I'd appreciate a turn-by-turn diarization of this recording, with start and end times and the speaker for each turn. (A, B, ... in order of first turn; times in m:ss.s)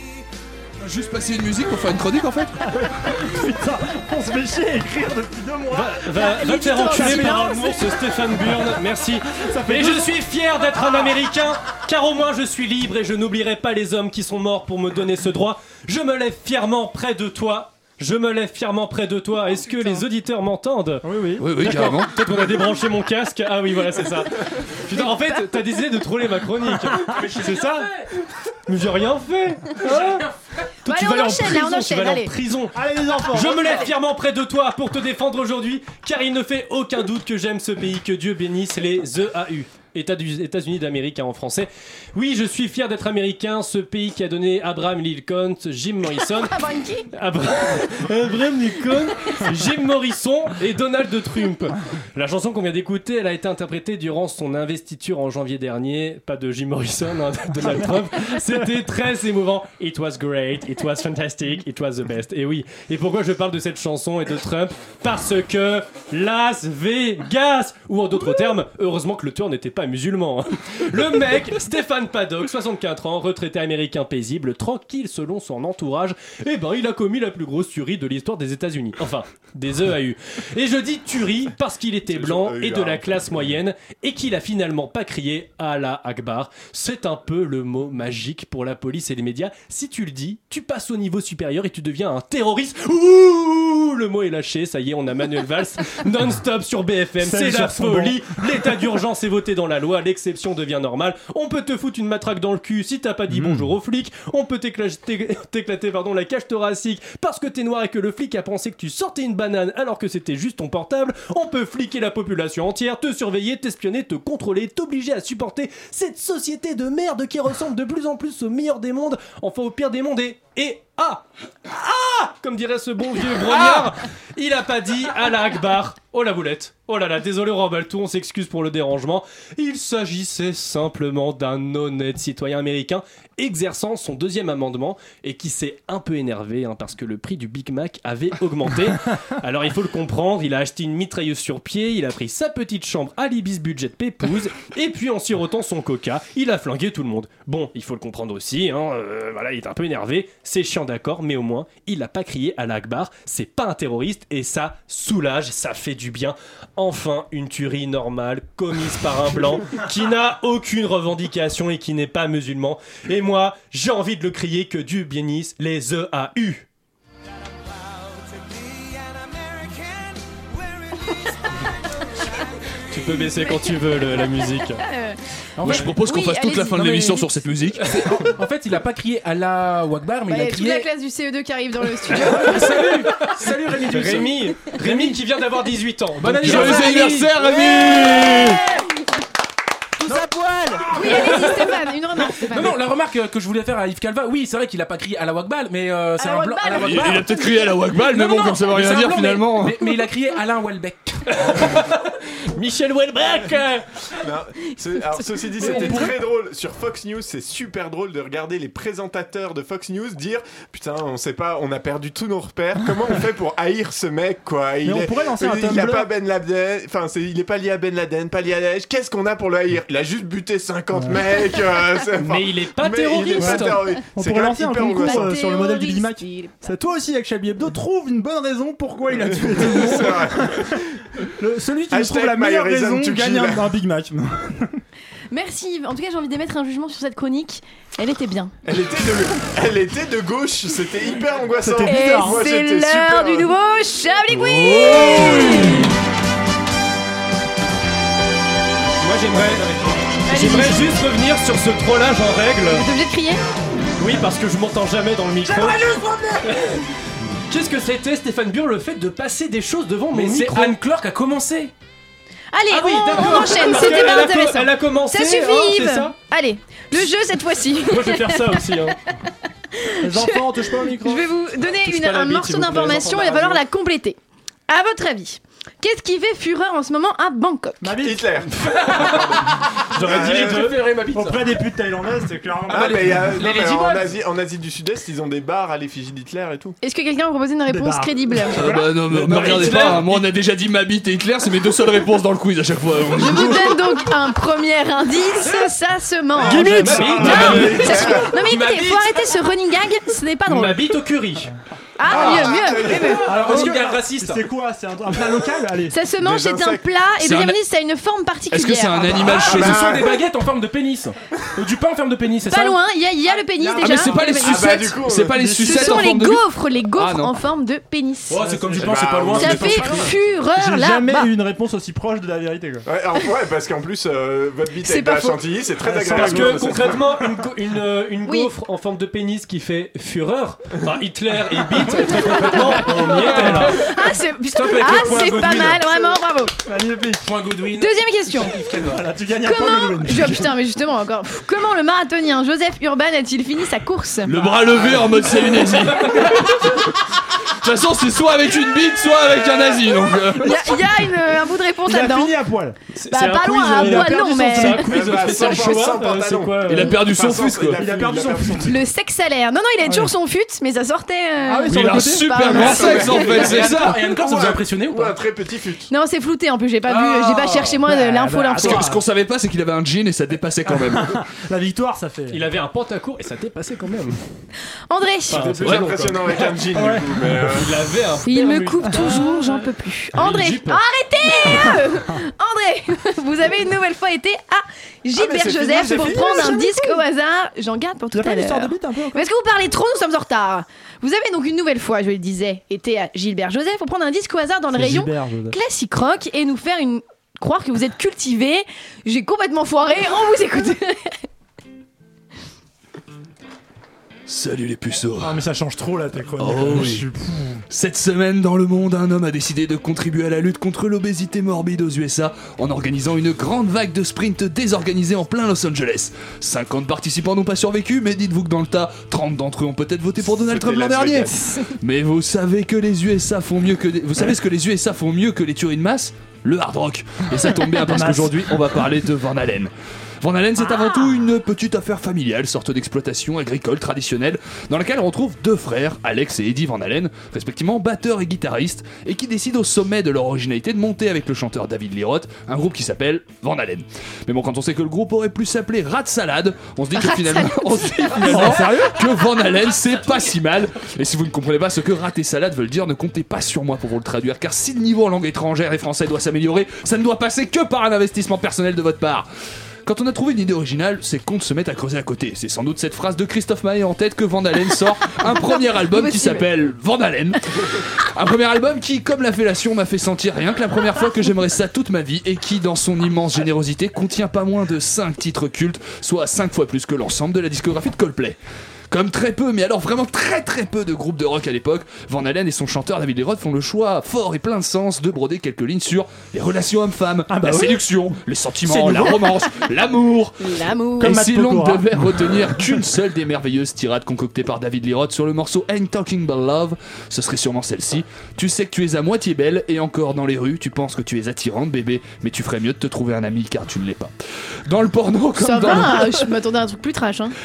0:00.8-0:02.6 A
0:02.7-0:07.8 B
0:05.7-0:21.0 C
0:06.2-0:07.9 D
0:08.4-0:08.7 B
0:09.4-0:10.1 B
0:21.0-0:21.6 B
0:21.4-0:22.2 A
0:21.6-0:27.9 C
0:24.9-0:25.5 D
0:27.0-0:28.1 E
0:28.7-0:30.2 C
0:29.8-0:30.4 E
0:30.8-0:32.8 C
0:30.9-0:32.3 D
0:32.7-0:33.8 B
0:33.3-0:46.5 C
0:33.5-0:33.8 D
0:46.4-0:47.1 D
0:47.1-2:01.2 C
1:22.1-1:23.4 F
1:37.2-1:38.3 B
1:43.3-1:43.7 B
2:01.8-2:46.6 C
2:52.9-2:54.8 C
2:53.4-2:53.7 D
2:54.8-2:55.2 D
2:55.6-2:58.0 A
2:55.8-2:57.0 D
2:57.9-3:00.9 E
3:00.3-3:02.9 D
3:02.1-3:05.1 E
3:03.8-3:07.3 C
3:06.2-3:07.3 E
3:06.3-3:08.6 A
3:10.0-3:11.1 B
3:10.8-3:11.7 E
3:10.9-3:12.8 D
3:12.3-3:17.3 E
3:16.2-3:18.6 D
3:16.8-3:19.8 A
3:18.5-3:21.8 E
3:22.6-3:23.8 C
3:22.6-3:23.7 E
3:24.2-3:45.3 F
3:25.6-3:25.8 D
3:25.6-3:26.1 B
3:34.8-3:36.1 B
3:41.0-3:41.2 B
3:42.2-3:43.9 C
3:43.4-3:50.8 B
3:44.8-3:46.6 D
3:49.4-3:50.9 F
3:51.4-3:54.8 B
3:51.9-3:53.8 F
3:55.3-3:58.5 D
3:58.7-4:03.5 F
4:01.6-4:02.4 B
4:01.9-4:05.9 D
4:04.3-4:05.8 A
4:09.0-4:12.8 C
4:10.3-4:11.0 D
4:12.7-4:13.4 D
4:14.0-4:16.8 C
4:15.6-4:16.4 E
4:17.5-4:20.8 C
4:20.1-4:21.7 E
4:22.5-4:28.7 D
4:22.7-4:26.2 C
4:27.8-4:29.0 C
4:29.7-4:34.2 D
4:30.0-4:31.3 B
4:31.6-4:33.6 C
4:34.7-4:38.0 D
4:37.8-4:38.3 B
4:38.0-4:40.8 F
4:38.8-4:39.2 E
4:39.9-4:40.8 C
4:40.0-4:41.5 E
4:41.1-4:43.4 B
4:42.7-4:46.8 F
4:43.4-4:43.8 C
4:43.5-4:44.0 E
4:46.8-4:48.7 D
4:47.7-4:50.0 B
4:48.6-4:53.9 A
4:49.1-4:50.2 C
4:53.1-5:00.8 D
4:56.4-4:58.2 C
4:56.4-4:58.2 B
4:56.5-4:59.1 E
4:57.7-4:58.3 F
5:00.5-5:01.5 C
5:02.0-5:03.5 D
5:02.1-5:03.7 F
5:02.1-5:02.5 E
5:03.2-5:04.5 E
5:03.2-5:06.0 B
5:05.9-5:09.7 D
5:06.2-5:06.9 F
5:07.2-5:07.6 A
5:08.5-5:09.9 A
5:09.4-5:10.2 F
5:09.4-5:12.8 E
5:12.5-5:14.6 D
5:13.6-5:14.2 B
5:13.8-5:17.4 A
5:14.4-5:15.5 F
5:15.3-5:16.1 B
5:15.6-5:18.6 D
5:18.3-5:20.1 E
5:18.4-5:19.0 B
5:18.8-5:20.0 F
5:19.3-5:21.3 D
5:20.6-5:22.9 B
5:22.9-5:27.2 F
5:24.8-5:25.5 D
5:25.8-5:27.3 B
5:26.1-5:33.8 C
5:28.3-5:28.5 D
5:31.8-5:33.8 B
5:32.2-5:36.5 D
5:34.5-5:36.1 E
5:36.6-5:37.3 B
5:37.2-5:39.0 E
5:37.8-5:38.6 D
5:38.9-5:40.5 B
5:39.4-5:44.4 D
5:44.3-5:46.9 A
5:47.5-5:50.8 A
5:50.4-5:52.4 D
5:51.9-5:52.8 B
5:53.0-5:57.0 C
5:53.1-5:54.9 D
5:53.6-5:54.8 B
5:54.7-5:58.8 F
5:56.6-5:57.8 A
5:57.8-5:58.8 B
5:58.7-6:03.3 D
5:59.8-6:00.1 B
6:01.5-6:02.8 B
6:01.7-6:04.1 A
6:02.5-6:05.9 F
6:03.2-6:05.2 E
6:05.9-6:08.9 D
6:07.4-6:07.6 E
6:07.8-6:09.0 B
6:08.6-6:11.2 A
6:10.7-6:12.4 B
6:12.3-6:14.2 C
6:14.9-6:15.5 D
6:15.3-6:19.6 C
6:15.3-6:17.8 F
6:15.6-6:15.9 A
6:16.8-6:17.0 B
6:18.2-6:41.2 D
6:20.2-6:20.8 C
6:21.5-6:21.8 B
6:25.2-6:26.4 F
6:25.8-6:27.0 B
6:28.1-6:29.2 B
6:34.7-6:35.6 B
6:44.3-6:45.4 A
6:45.2-6:47.6 B
6:46.3-6:47.1 A
6:47.7-7:09.7 A
7:00.3-7:01.4 F
7:07.8-7:08.8 B
7:10.2-7:39.3 A
7:10.7-7:11.3 D
7:27.0-7:28.7 D
7:28.2-7:29.0 B
7:39.9-7:58.4 A
7:45.4-7:46.5 D
7:58.9-8:24.1 A
8:07.3-8:07.8 B
8:08.7-8:09.7 D
8:10.4-8:11.2 D
8:11.0-8:12.6 B
8:24.7-8:26.3 A
8:25.4-8:27.4 D